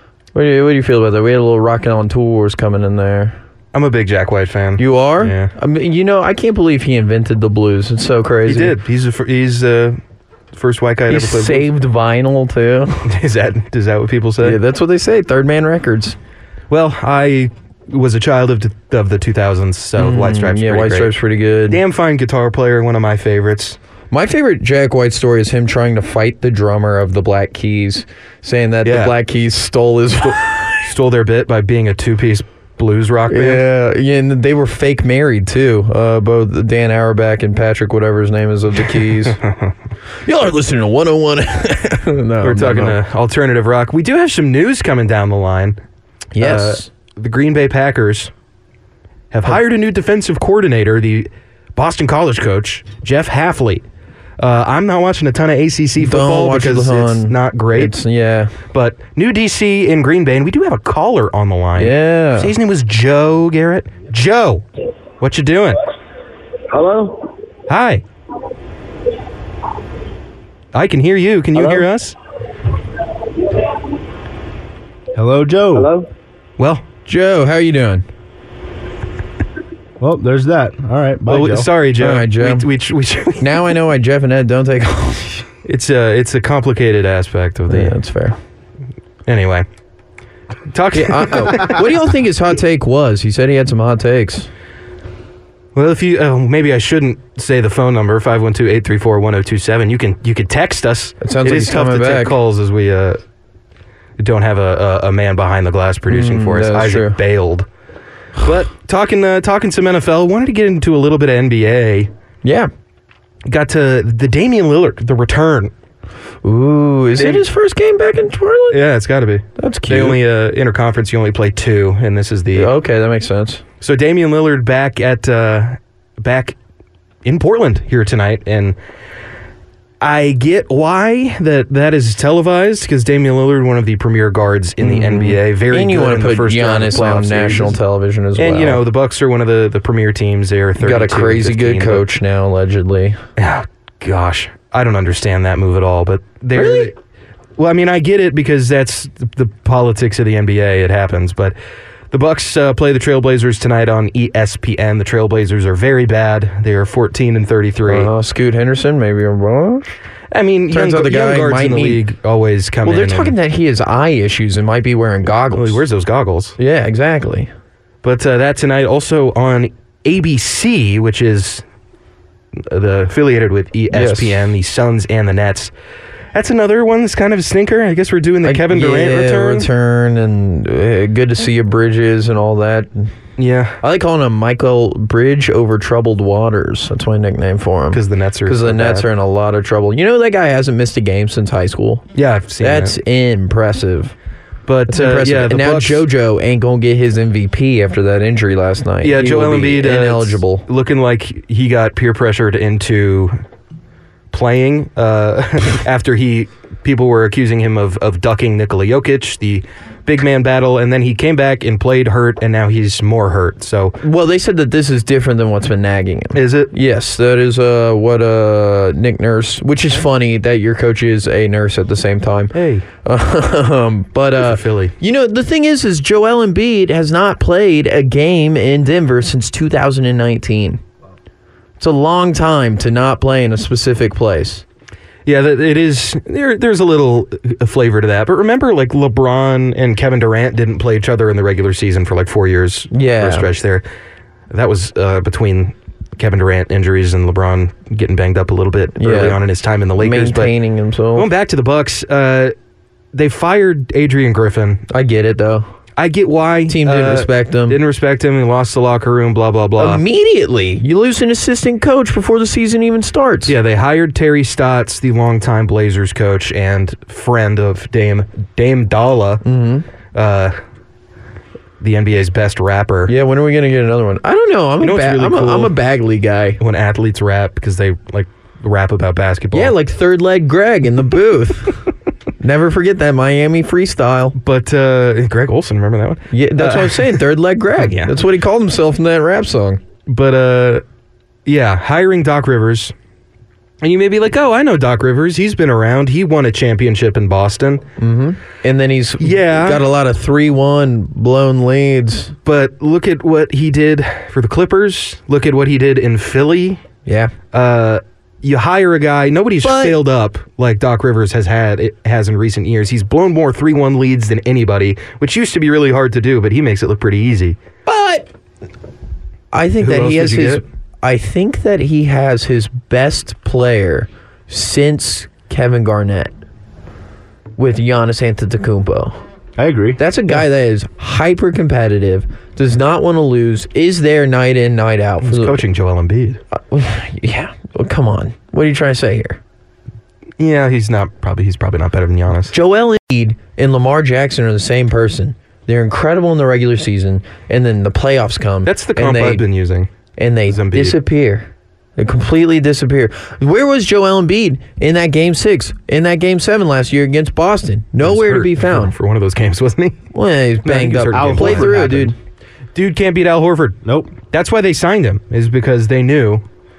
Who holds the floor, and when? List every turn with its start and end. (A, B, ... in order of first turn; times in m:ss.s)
0:00.3-0:03.4 A
0:03.7-0:05.5 B
0:04.8-0:08.8 A
0:08.5-0:10.0 B
0:10.5-0:11.7 B
0:11.1-0:13.2 A
0:13.1-0:14.6 B
0:14.4-0:16.2 A
0:16.7-0:21.1 B
0:20.0-0:21.8 A
0:21.7-0:23.8 B
0:24.1-0:30.9 A
0:28.8-0:29.2 B
0:30.3-0:33.6 B
0:33.3-0:39.4 A
0:39.2-0:39.7 B
0:40.2-0:43.0 A
0:42.4-0:45.8 B
0:46.4-0:46.9 A
0:46.4-0:48.3 B
0:49.3-0:53.8 B
0:54.4-0:58.0 B
0:56.0-0:58.6 A
0:58.7-1:04.6 B
1:01.8-1:02.5 A
1:05.2-1:05.8 B
1:07.7-1:08.0 B
1:10.7-1:12.2 B
1:15.2-1:16.1 C
1:16.6-1:16.8 B
1:17.1-1:18.1 A
1:20.0-1:21.7 C
1:21.3-1:23.6 B
1:22.0-1:22.7 A
1:23.4-1:25.5 A
1:25.6-1:27.9 B
1:27.7-1:28.4 A
1:29.3-1:29.6 B
1:30.7-1:32.0 B
1:30.9-1:34.5 A
1:35.8-1:43.2 B
1:41.2-1:42.4 A
1:44.2-1:47.7 B
1:46.1-1:47.2 A
1:48.4-1:52.1 B
1:52.4-1:52.7 A
1:53.5-1:55.7 B
1:56.4-1:58.8 A
1:57.2-1:57.5 B
1:58.7-2:02.7 B
1:59.6-2:00.2 A
2:02.5-2:03.6 A
2:03.8-2:06.6 B
2:07.2-2:08.8 B
2:10.0-2:17.8 B
2:14.8-2:18.8 A
2:18.4-2:22.1 B
2:20.8-2:23.2 A
2:23.4-2:27.0 B
2:26.6-2:26.9 A
2:27.6-2:31.6 B
2:32.1-2:38.1 B
2:37.8-2:40.0 A
2:40.3-2:43.4 B
2:40.7-2:42.0 A
2:42.8-2:45.8 A
2:45.5-2:46.6 B
2:46.6-2:47.5 A
2:48.0-2:51.6 B
2:52.6-2:55.7 B
2:53.9-2:54.5 A
2:56.3-2:59.7 B
2:58.4-3:03.1 A
3:03.4-3:03.8 B
3:03.8-3:12.0 A
3:07.9-3:09.1 B
3:12.2-3:13.0 B
3:12.6-3:14.1 A
3:14.7-3:16.0 B
3:14.9-3:20.6 A
3:19.0-3:23.4 B
3:24.3-3:34.0 B
3:34.0-3:50.8 A
3:36.3-3:36.7 B
3:42.5-3:42.9 B
3:44.4-3:44.9 B
3:51.8-3:54.6 A
3:55.3-4:03.8 B
4:02.9-4:03.5 A
4:04.5-4:10.5 B
4:09.0-4:09.4 A
4:10.0-4:11.3 A
4:11.2-4:12.5 B
4:13.1-4:14.8 B
4:14.9-4:15.7 A
4:16.0-4:20.0 B
4:16.7-4:17.8 A
4:19.8-4:23.6 A
4:23.5-4:29.4 B
4:29.4-4:29.9 A
4:30.1-4:30.6 B
4:31.8-4:33.1 B
4:33.1-4:36.6 A
4:34.8-4:35.7 B
4:36.6-4:39.8 B
4:39.5-4:41.8 A
4:42.4-4:44.4 A
4:44.4-4:47.2 B
4:46.3-4:49.8 A
4:47.8-4:48.1 B
4:50.1-4:50.8 B
4:51.5-4:52.9 B
4:53.8-4:57.8 B
4:58.0-5:02.3 A
4:59.2-4:59.8 B
5:02.5-5:06.8 B
5:07.1-5:07.4 A
5:07.5-5:17.6 B
5:09.6-5:10.0 A
5:17.9-5:18.3 A
5:19.5-5:26.3 A
5:19.8-5:20.6 B
5:27.6-5:29.2 A
5:29.6-5:30.0 C
5:30.0-5:35.6 A
5:35.2-5:36.4 B
5:36.5-5:39.4 A
5:40.4-5:42.5 B
5:42.5-5:49.4 A
5:48.6-5:49.9 B
5:50.2-5:59.0 A
5:50.5-5:51.0 B
5:58.0-6:00.0 B
6:00.1-6:02.2 A
6:00.6-6:02.0 B
6:01.1-6:02.1 C
6:02.8-6:06.4 B
6:03.8-6:04.1 C